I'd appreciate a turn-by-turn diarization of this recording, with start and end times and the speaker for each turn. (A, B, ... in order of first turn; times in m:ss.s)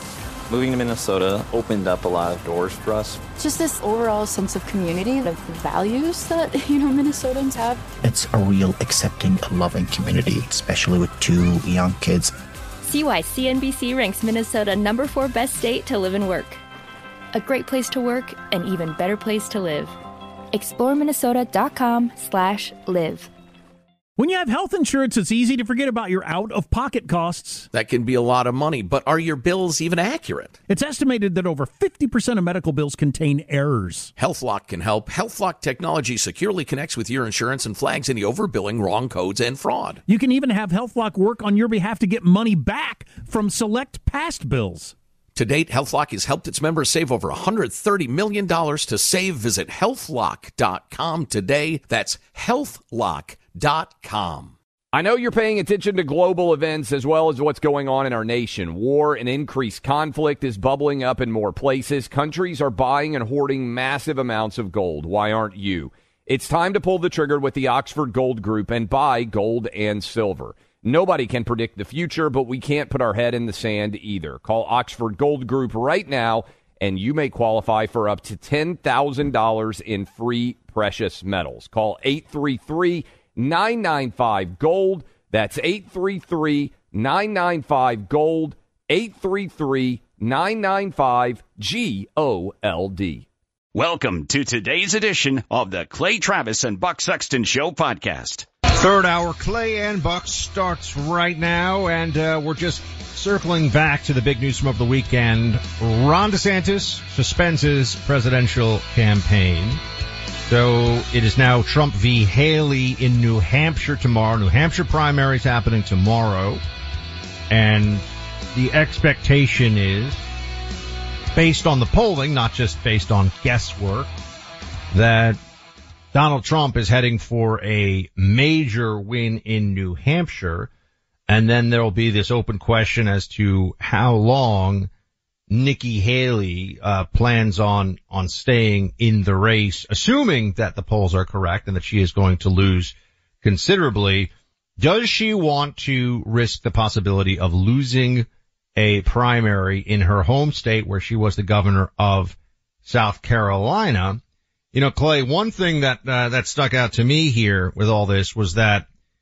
0:00.5-0:03.2 A
0:03.4-0:07.8 B
0:08.0-0:12.3 C
0:12.8-0:16.6 D
0:17.3-0:19.9 D
0:20.5-0:23.3 D
0:24.2-0:27.7 E
0:27.7-0:30.6 F
0:30.7-0:34.1 E
0:34.2-0:40.0 F
0:40.1-0:45.0 E
0:45.4-0:54.6 F
0:54.9-1:33.3 G
1:33.7-1:38.5 H
1:38.7-1:49.8 I
1:50.5-1:56.6 I
1:57.5-2:00.2 I
2:01.3-2:04.1 I
2:04.9-2:05.4 I
2:06.1-2:10.7 I
2:11.3-2:14.9 I
2:15.5-2:34.2 I
2:34.7-2:38.9 I